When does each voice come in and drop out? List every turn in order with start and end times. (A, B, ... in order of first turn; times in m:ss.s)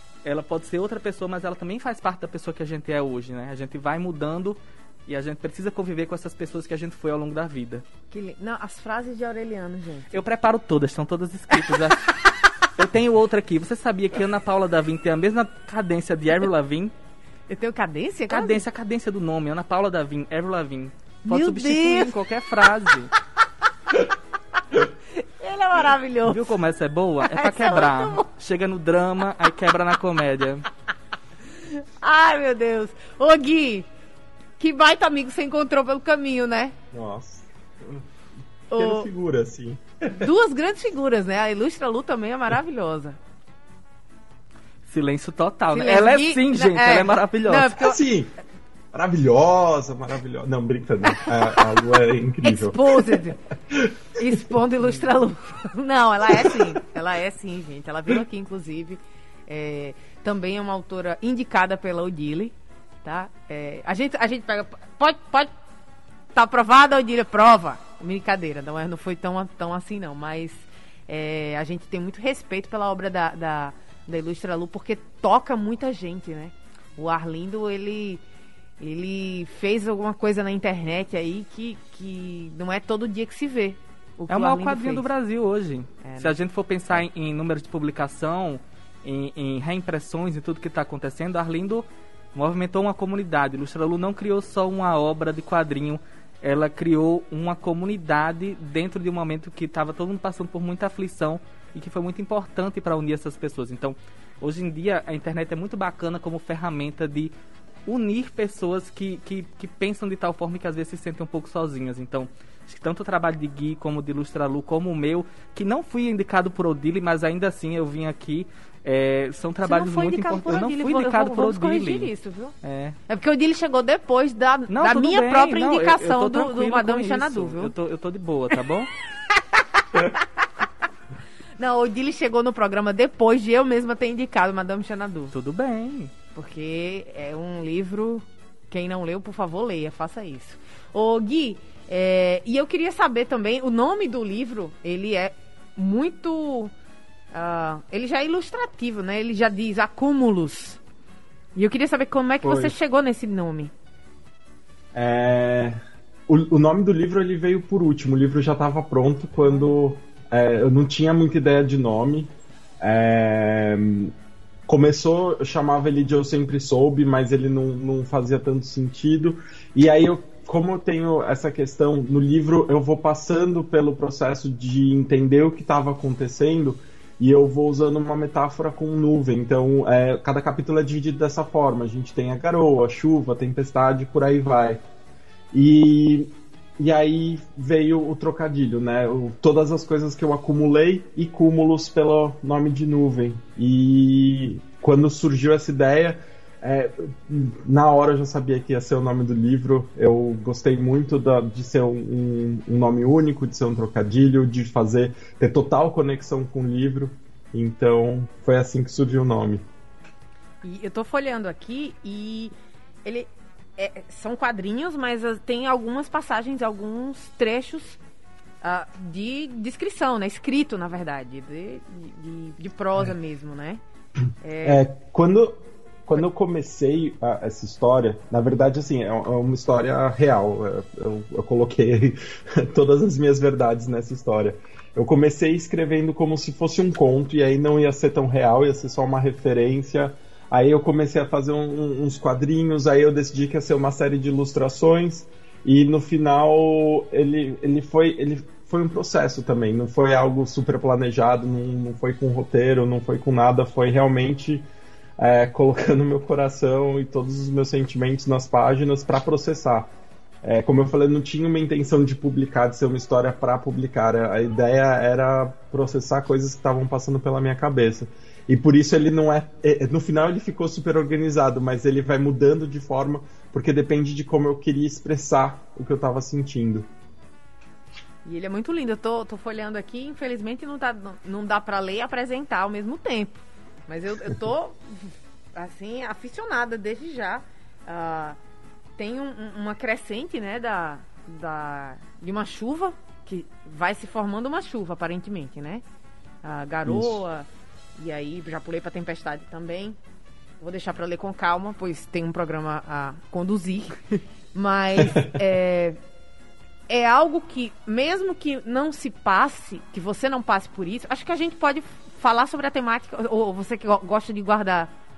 0:00.2-0:07.8 A
0:08.1-0:10.2 B
0:10.1-0:16.9 A
0:17.5-0:18.6 B
0:18.3-0:23.1 A
0:21.2-0:22.2 B
0:25.2-0:26.5 B
0:26.2-0:30.7 A
0:27.3-0:28.2 B
0:32.0-0:33.9 B
0:34.6-0:36.8 B
0:36.9-0:38.0 C
0:38.7-0:39.1 B
0:38.7-0:40.3 C
0:40.1-0:43.2 B
0:44.8-0:47.7 A
0:45.7-0:48.0 B
0:47.8-0:48.3 C
0:48.9-0:53.9 C
0:52.4-0:53.4 B
0:54.2-1:05.5 B
1:06.3-1:18.2 B
1:18.8-1:25.1 B
1:24.3-1:47.3 A
1:26.0-1:26.4 B
1:47.8-2:02.1 A
1:59.6-2:02.6 B
2:02.6-2:03.0 A
2:03.1-2:07.7 B
2:04.7-2:08.9 A
2:09.6-2:10.2 B
2:11.6-2:15.3 B
2:15.3-2:16.1 A
2:16.3-2:26.7 B
2:27.3-2:30.8 B
2:31.5-2:33.7 B
2:32.4-2:32.7 C
2:34.9-2:44.1 C
2:44.7-3:04.8 C
3:05.5-3:29.6 C
3:30.6-3:32.5 B
3:33.0-3:38.0 B
3:38.6-3:43.8 B
3:44.4-3:44.8 B
3:44.6-4:14.7 C
4:15.2-4:19.9 C
4:20.4-4:36.9 C
4:38.2-4:43.3 B
4:43.9-4:45.0 B
4:45.5-4:48.4 B
4:49.0-4:55.8 B
4:56.4-5:00.0 B
4:56.8-4:57.2 C
5:00.6-5:04.0 B
5:04.5-5:06.0 B
5:06.9-5:14.9 B